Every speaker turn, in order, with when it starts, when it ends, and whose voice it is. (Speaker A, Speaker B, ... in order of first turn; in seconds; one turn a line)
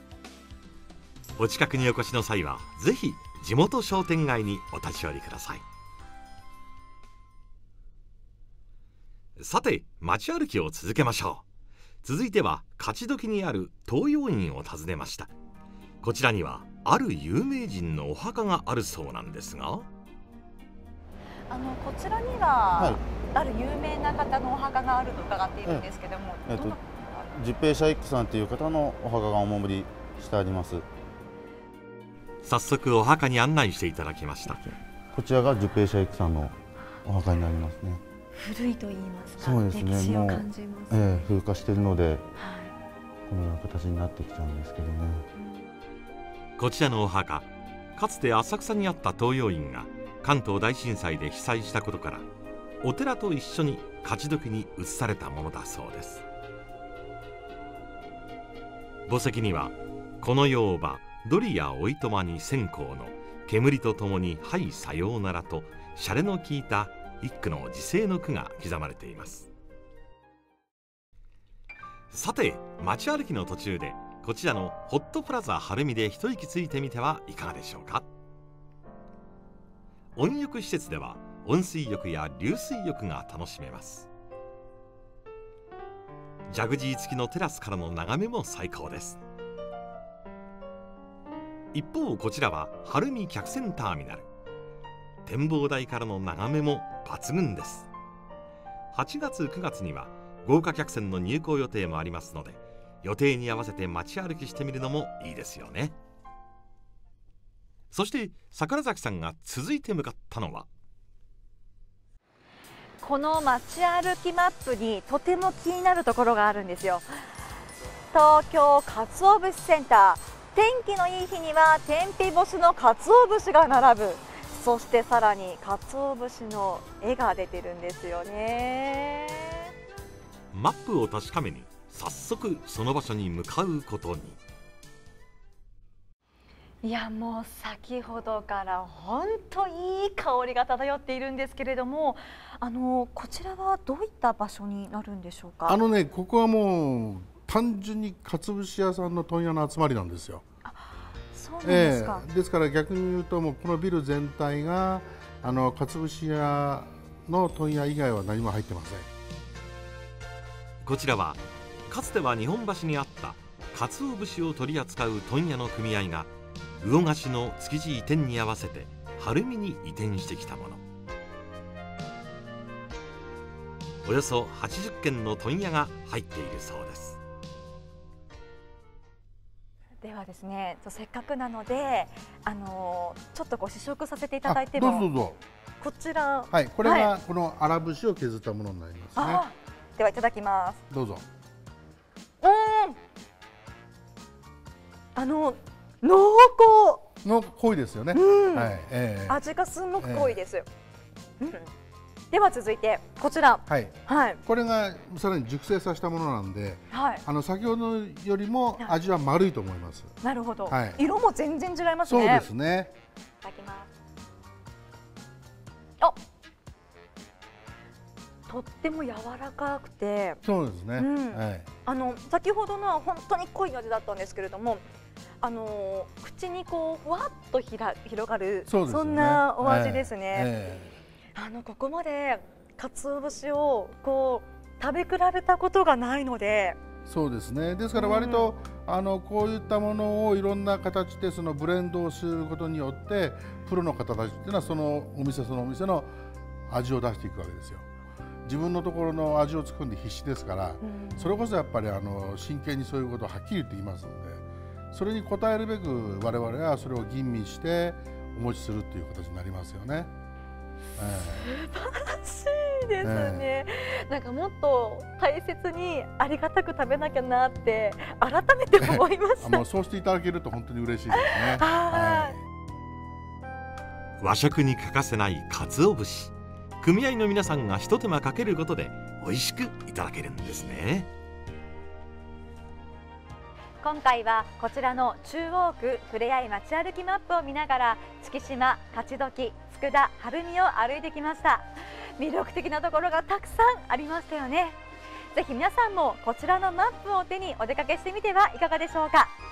Speaker A: 1.4-5.6
Speaker A: 9.4-11.4
Speaker A: 12.0-15.3
Speaker A: 16.0-19.9
Speaker B: 21.5-27.2
Speaker C: 22.8-23.0
Speaker C: 27.3-30.8
Speaker A: 32.4-34.6
Speaker C: 35.1-36.5
Speaker C: 37.0-38.0
Speaker B: 38.3-41.3
Speaker C: 39.4-42.2
Speaker B: 42.4-42.7
Speaker C: 43.3-45.2
Speaker A: 46.6-52.2
Speaker A: 52.8-56.2
Speaker A: 59.1-69.5
Speaker A: 72.1-78.1
Speaker A: 80.2-84.1
Speaker A: 86.5-89.2
Speaker A: 91.7-94.3
Speaker A: 95.2-97.9
Speaker A: 98.9-106.0
Speaker A: 107.9-110.7
Speaker B: 113.0-117.1
Speaker B: 118.1-129.7
Speaker A: 130.5-134.4
Speaker B: 136.8-145.8
Speaker D: 145.7-150.4
Speaker B: 150.6-152.2
Speaker D: 151.6-159.1
Speaker A: 160.8-170.8
Speaker A: 174.0-177.2
Speaker B: 180.0-185.1
Speaker D: 184.4-185.4
Speaker B: 185.8-187.1
Speaker D: 186.5-189.4
Speaker B: 189.2-190.8
Speaker D: 190.9-191.2
Speaker B: 192.4-193.0
Speaker B: 195.2-197.1
Speaker D: 197.2-199.4
Speaker B: 198.1-198.8
Speaker B: 199.3-200.7
Speaker D: 200.0-200.4
Speaker B: 201.4-201.7
Speaker B: 202.3-204.4
Speaker D: 203.7-211.1
Speaker B: 206.9-207.2
Speaker B: 210.2-212.5
Speaker D: 212.0-212.9
Speaker B: 213.4-213.9
Speaker B: 218.5-220.4
Speaker D: 220.4-221.7
Speaker B: 221.0-224.8
Speaker B: 225.4-230.5
Speaker D: 228.7-230.9
Speaker B: 231.3-236.8
Speaker D: 237.0-246.2
Speaker B: 237.9-238.5
Speaker D: 246.7-247.9
Speaker D: 248.4-260.1
Speaker B: 250.8-251.3
Speaker D: 261.0-261.4
Speaker B: 261.4-269.6
Speaker D: 263.0-263.5
Speaker D: 268.8-272.4
Speaker B: 271.1-272.4
Speaker A: 274.2-281.1
Speaker B: 283.8-294.8
Speaker B: 295.3-299.3